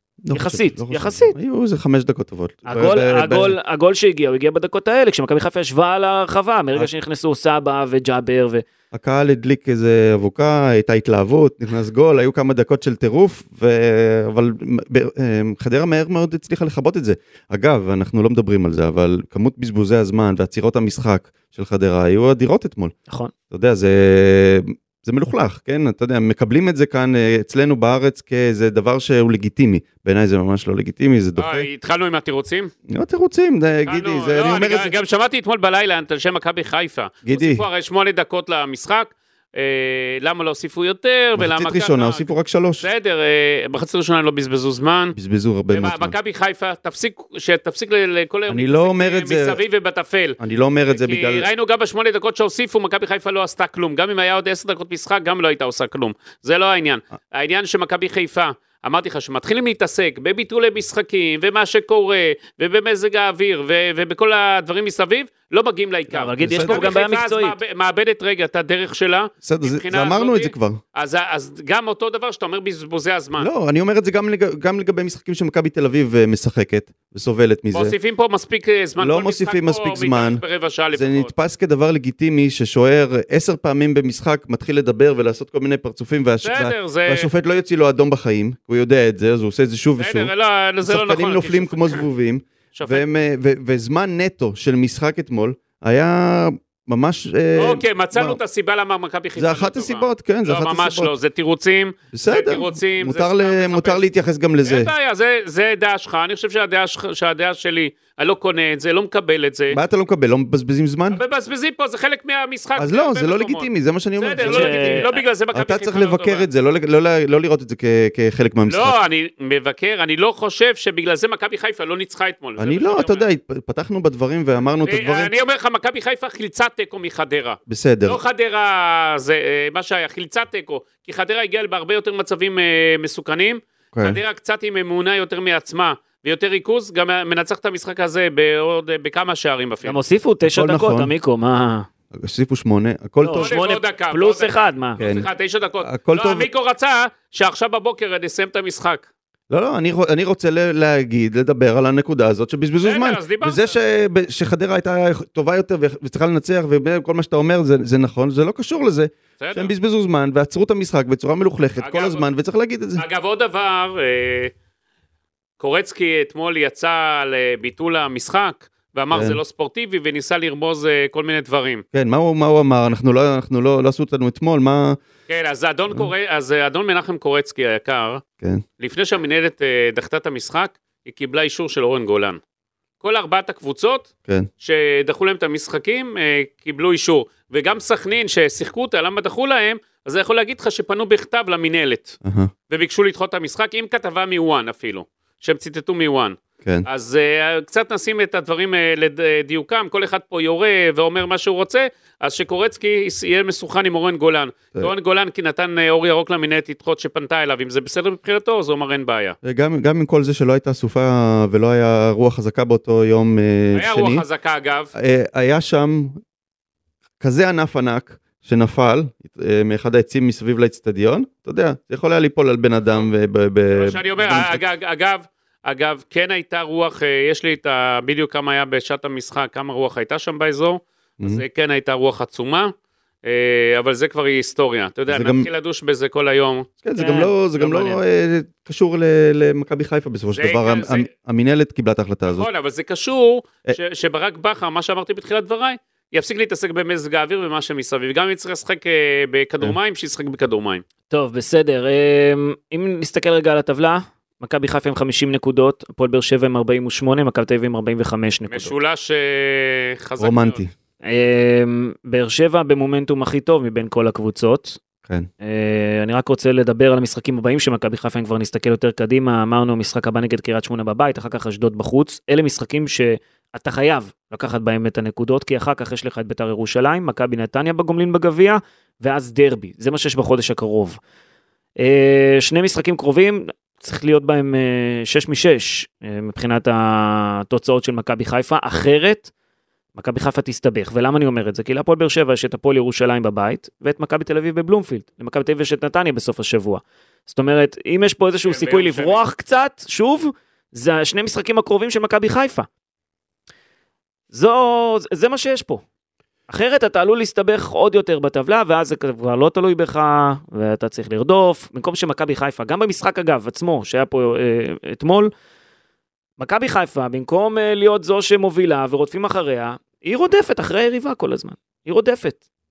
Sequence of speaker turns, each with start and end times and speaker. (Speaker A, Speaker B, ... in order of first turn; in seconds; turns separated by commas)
Speaker A: 0.2-3.6, Speaker B: 0.3-1.4, Speaker B: 2.7-8.6, Speaker A: 8.9-22.9, Speaker A: 23.5-31.7, Speaker C: 31.4-32.7, Speaker A: 32.9-34.9, Speaker C: 33.9-42.3, Speaker A: 37.2-37.6, Speaker A: 41.4-42.9, Speaker C: 42.8-45.1, Speaker A: 45.1-46.1, Speaker C: 45.7-50.4, Speaker A: 48.5-49.6, Speaker A: 50.4-51.5, Speaker C: 50.9-73.5, Speaker B: 66.1-67.6, Speaker A: 66.4-66.9, Speaker A: 69.4-70.8, Speaker A: 73.4-77.9, Speaker C: 77.7-81.3, Speaker A: 79.0-80.4, Speaker A: 80.9-90.3, Speaker C: 86.4-87.3, Speaker C: 90.0-92.0, Speaker A: 90.8-98.4, Speaker C: 92.8-93.0, Speaker C: 97.6-104.0, Speaker A: 99.4-101.1, Speaker A: 102.1-104.9, Speaker C: 104.6-109.8, Speaker A: 109.7-111.2, Speaker C: 111.1-116.5, Speaker A: 112.8-119.0, Speaker B: 114.4-115.2, Speaker C: 118.7-123.2, Speaker A: 122.6-125.3, Speaker C: 124.8-140.0, Speaker A: 127.7-128.2, Speaker A: 133.9-134.2, Speaker B: 139.8-141.9, Speaker A: 140.4-141.1, Speaker A: 142.1-143.6, Speaker B: 143.2-145.0, Speaker C: 143.4-149.1, Speaker A: 145.0-145.3, Speaker A: 145.8-146.5, Speaker A: 149.5-163.0, Speaker C: 152.8-153.7, Speaker C: 159.4-159.7, Speaker C: 161.8-162.2, Speaker C: 163.0-164.5, Speaker C: 165.6-171.8, Speaker A: 169.1-169.4, Speaker A: 171.9-175.0, Speaker C: 175.3-178.2, Speaker C: 178.8-182.4, Speaker C: 183.0-184.1, Speaker C: 184.6-192.2, Speaker A: 192.2-192.5, Speaker C: 192.7-209.4, Speaker A: 209.4-214.2, Speaker C: 213.7-214.9, Speaker A: 214.9-216.2, Speaker A: 217.2-224.6, Speaker C: 223.7-232.7, Speaker C: 233.2-236.7, Speaker A: 235.1-235.5, Speaker A: 236.8-242.5, Speaker B: 237.0-238.0, Speaker C: 240.3-241.1, Speaker C: 242.3-250.8, Speaker B: 251.1-258.7, Speaker C: 258.5-260.6, Speaker A: 260.2-260.7, Speaker B: 261.0-264.8, Speaker B: 265.4-281.0, Speaker B: 281.8-289.3, Speaker B: 290.0-302.7, Speaker C: 298.5-299.2, Speaker B: 304.3-305.8, Speaker B: 306.5-315.3, Speaker B: 316.4-322.4